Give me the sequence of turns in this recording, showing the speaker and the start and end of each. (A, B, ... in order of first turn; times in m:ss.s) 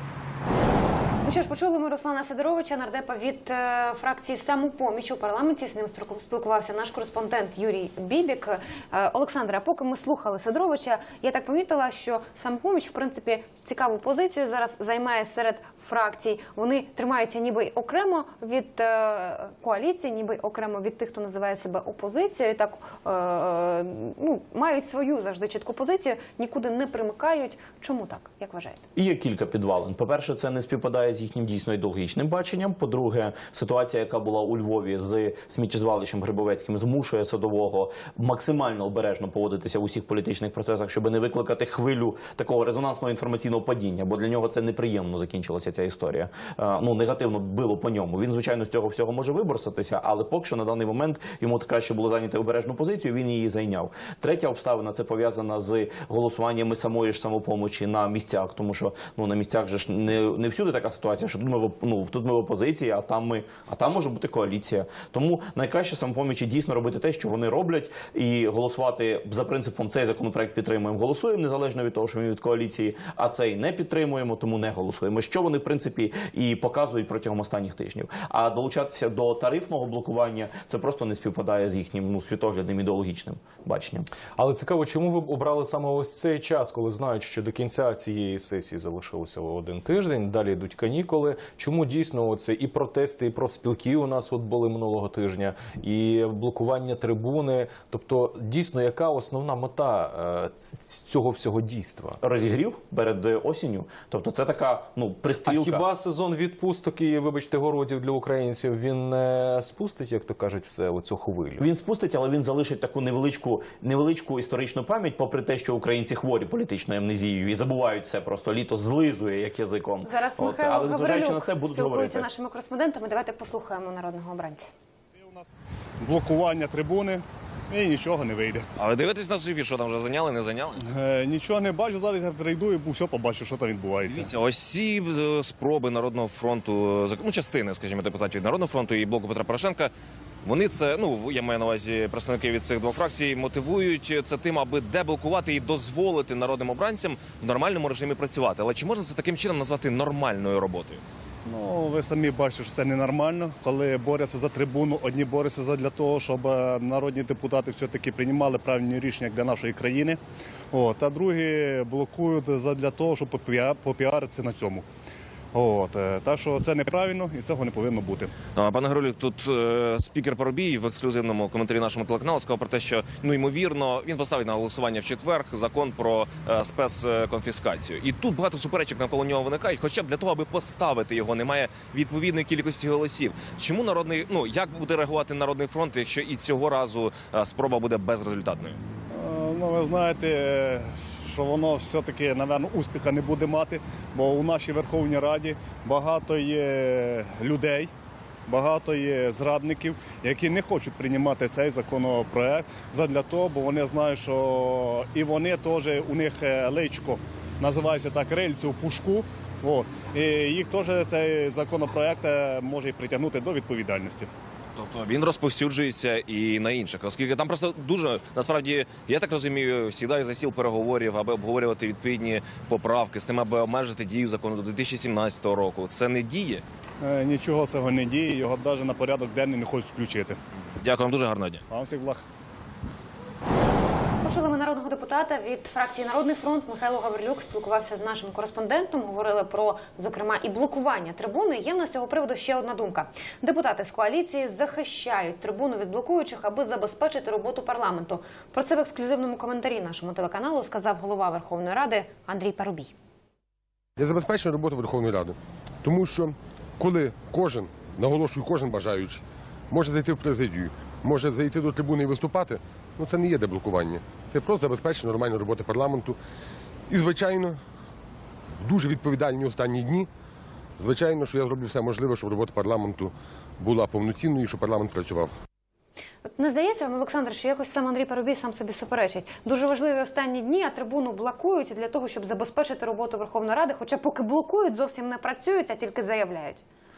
0:01.2-0:28.8 A
0:29.0-1:24.1 B
1:24.4-1:42.2 C
1:42.2-1:45.8 B
1:45.4-1:51.6 C
1:51.6-2:02.3 B
2:00.0-2:04.7 A
2:05.2-2:08.7 D
2:08.8-2:10.8 E
2:10.8-2:14.3 D
2:14.1-2:19.9 E
2:20.4-2:31.0 E
2:31.4-2:40.2 D
2:40.7-2:44.8 D
2:45.5-2:48.3 D
2:48.5-3:08.8 E
3:09.1-3:17.9 D
3:18.5-3:34.3 D
3:34.8-3:46.6 E
3:47.0-3:50.4 D
3:50.8-3:51.6 E
3:51.7-3:52.2 D
3:54.2-4:12.9 A
4:14.0-4:26.2 F
4:26.9-4:27.6 F
4:28.6-4:30.1 F
4:30.8-4:35.3 F
4:36.3-4:46.6 A